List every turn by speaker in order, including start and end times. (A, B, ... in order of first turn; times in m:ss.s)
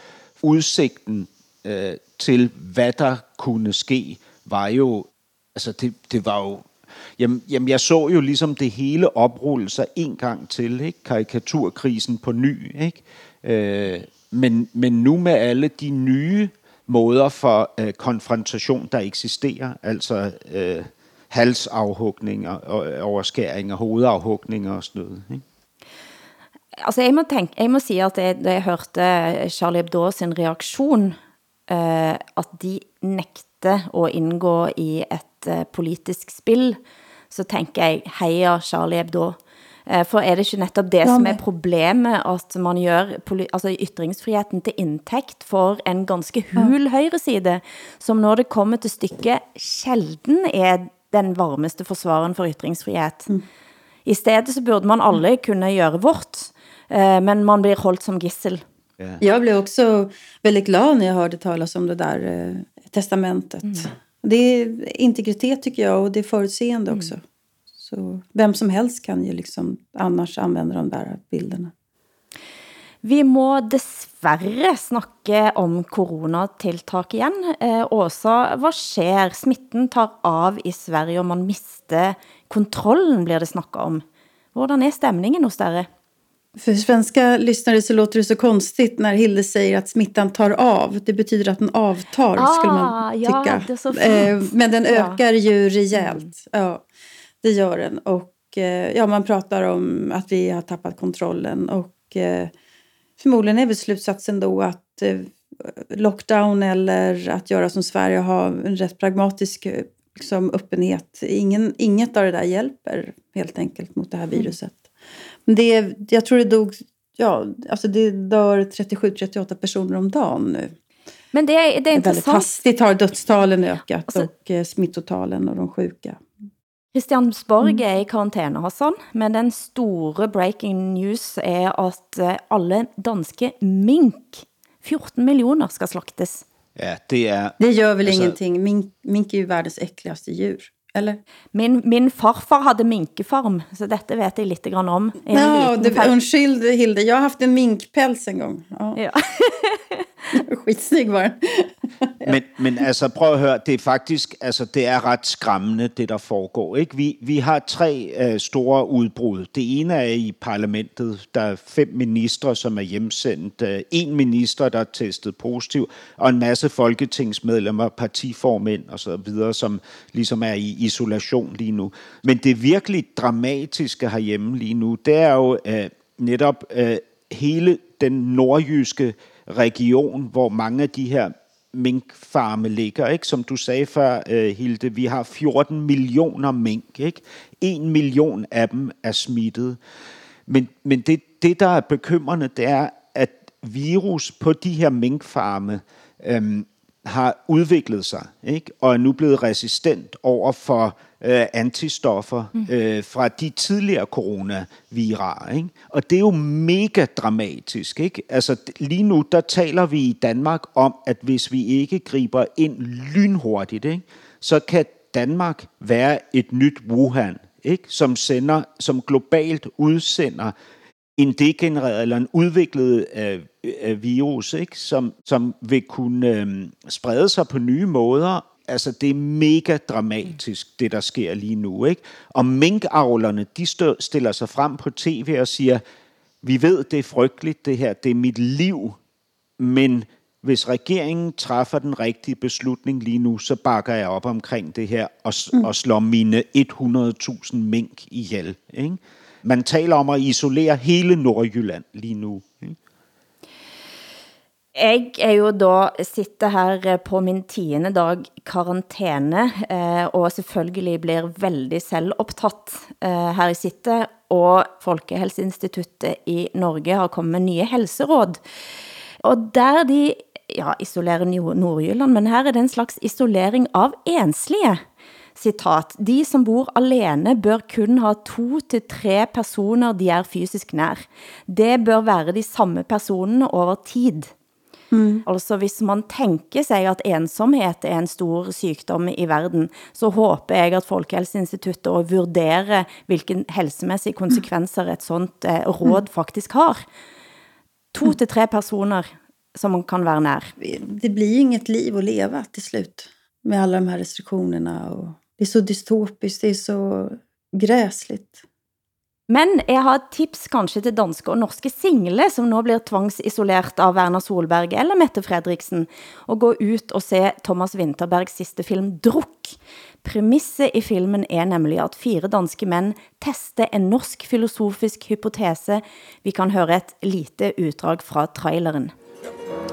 0:00.4-0:25.4 A
0:26.8-0:31.2 B
0:31.7-0:36.8 B
0:37.3-0:53.3 B
0:41.0-0:41.4 C
0:54.1-0:58.6 B
0:59.2-1:07.2 C
1:07.8-1:11.7 C
1:13.0-1:24.0 B
1:24.6-1:25.9 B
1:26.6-1:36.8 C
1:32.4-1:35.2 B
1:36.0-1:36.2 B
1:37.4-1:42.5 C
1:43.2-1:54.9 C
1:55.5-2:00.7 C
2:01.3-2:02.5 B
2:02.0-2:06.2 C
2:06.9-2:16.4 B
2:16.8-2:18.4 A
2:17.6-2:21.2 C
2:21.5-2:26.1 B
2:25.3-2:29.0 C
2:29.0-2:30.1 B
2:30.4-2:32.4 C
2:32.2-3:09.8 A
3:10.5-3:40.5 A
3:41.2-3:55.8 A
3:56.4-3:59.0 A
3:59.6-4:12.8 A
4:14.8-4:28.4 B
4:29.2-4:34.8 B
4:35.4-4:44.3 B
4:44.9-4:45.2 C
4:45.3-4:56.8 B
4:57.9-5:00.5 B
5:00.6-5:08.4 C
5:09.3-5:28.9 B